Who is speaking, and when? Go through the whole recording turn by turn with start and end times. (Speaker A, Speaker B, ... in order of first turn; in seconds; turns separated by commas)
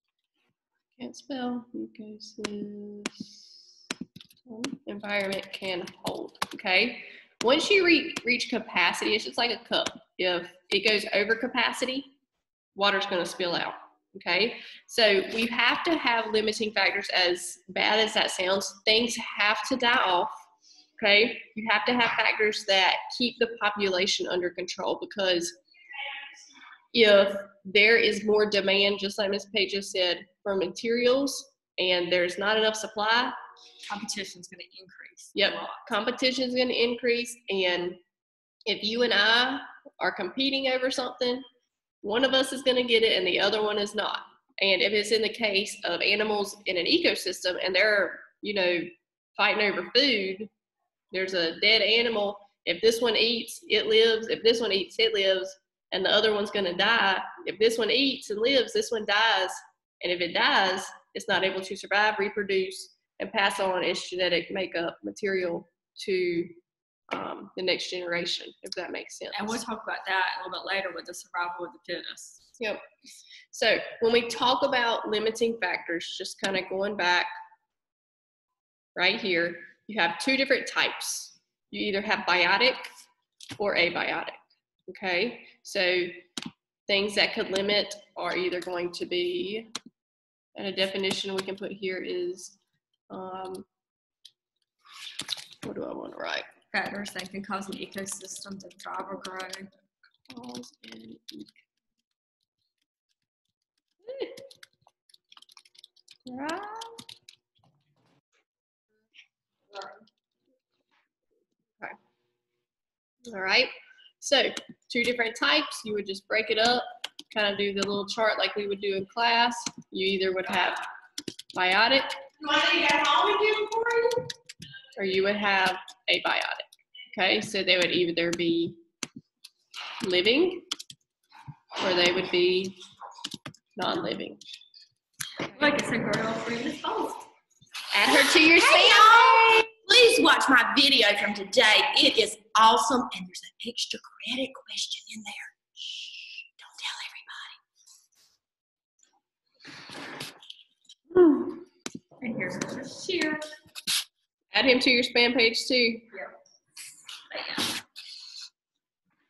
Speaker A: 1.0-3.6, Speaker A: 4.5-12.1, Speaker A: 12.8-20.3, Speaker A: 21.0-25.5, Speaker A: 26.9-33.4, Speaker B: 33.9-35.9, Speaker A: 35.4-38.0, Speaker A: 38.7-41.4, Speaker A: 42.0-50.5, Speaker A: 51.1-66.5, Speaker A: 67.1-69.6, Speaker B: 69.3-72.4, Speaker A: 73.5-77.3, Speaker A: 79.0-82.9, Speaker A: 83.6-86.2, Speaker A: 86.9-89.7, Speaker A: 90.5-92.6, Speaker A: 93.1-93.7, Speaker A: 95.6-96.5, Speaker B: 96.7-99.7, Speaker A: 100.3-101.6, Speaker A: 104.0-104.4, Speaker A: 106.3-107.0, Speaker A: 113.3-120.8, Speaker A: 121.5-124.1, Speaker C: 122.7-123.9, Speaker A: 125.0-128.8, Speaker A: 130.0-130.7, Speaker A: 131.8-132.8, Speaker A: 133.8-134.4, Speaker B: 135.5-137.2, Speaker A: 137.9-139.7, Speaker C: 138.3-145.6, Speaker C: 146.6-147.6, Speaker B: 152.2-153.4, Speaker A: 154.5-156.2, Speaker B: 157.3-157.8